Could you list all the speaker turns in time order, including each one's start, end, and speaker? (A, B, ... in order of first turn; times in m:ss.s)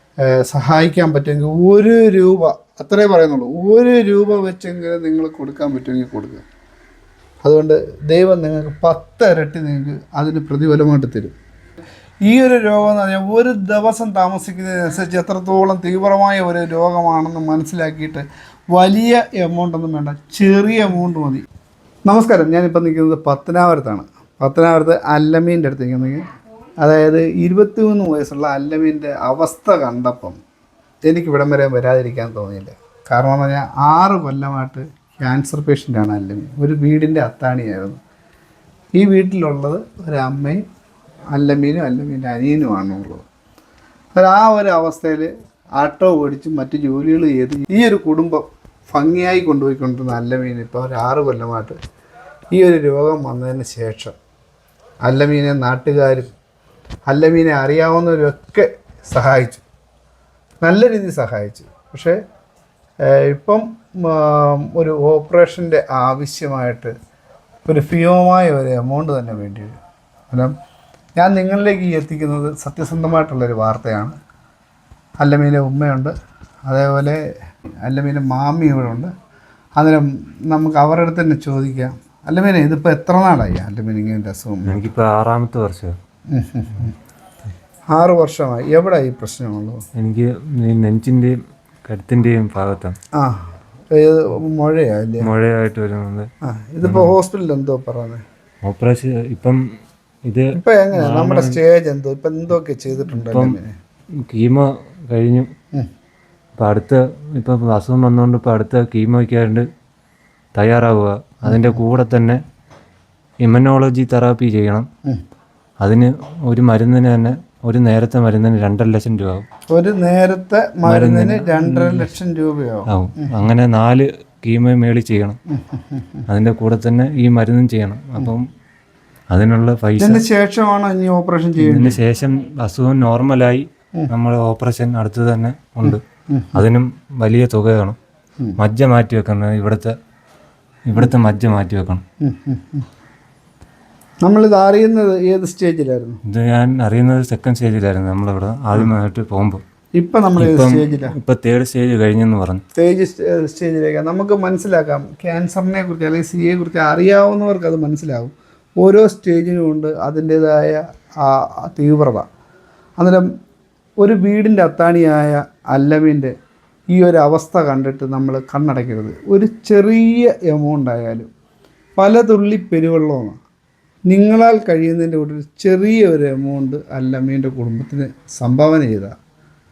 0:00.2-0:06.4 A
0:07.4-0:11.3 A
0:12.2-0:21.4 A
0:22.0-0:26.3 A
0:26.8-0:30.4 A
0:31.0-0:38.0 A
0:39.0-0:40.6 A
0:41.3-0:43.2 A
0:44.1-0:51.8 A
0:52.5-0:54.2 A
0:55.0-0:56.3 A
0:57.1-0:59.6 A
1:00.6-1:02.2 A
1:03.0-1:06.9 A
1:07.6-1:09.8 A
1:11.2-1:14.2 A
1:15.2-1:16.1 A
1:16.7-1:17.2 A
1:17.8-1:19.1 A
1:19.8-1:24.8 A
1:24.7-1:26.0 B
1:26.3-1:27.0 A
1:27.9-1:29.8 A
1:30.0-1:31.3 B
1:31.9-1:33.0 B
1:33.2-1:35.3 A
1:35.2-1:36.3 B
1:36.4-1:38.2 A
1:36.8-1:37.2 B
1:38.7-1:39.6 B
1:40.3-1:41.6 B
1:40.5-1:43.7 A
1:43.3-1:43.6 B
1:44.3-1:45.5 B
1:46.6-1:49.6 B
1:50.6-1:52.4 B
1:51.4-1:51.8 A
1:53.4-1:54.9 B
1:55.8-1:59.5 B
1:59.7-2:03.3 A
2:00.9-2:02.1 B
2:02.9-2:05.4 B
2:05.5-2:06.2 A
2:06.3-2:08.4 B
2:09.3-2:10.2 B
2:10.0-2:12.0 A
2:11.6-2:16.0 B
2:15.8-2:16.6 A
2:16.5-2:18.0 B
2:18.6-2:19.9 B
2:20.9-2:22.0 B
2:22.2-2:22.9 A
2:24.2-2:26.2 A
2:26.3-2:29.6 B
2:30.0-2:31.1 A
2:30.4-2:32.6 B
2:32.8-2:42.3 A
2:43.0-2:43.3 A
2:44.0-2:46.3 A
2:46.9-2:51.3 A
2:52.0-2:53.4 A
2:54.1-2:59.1 A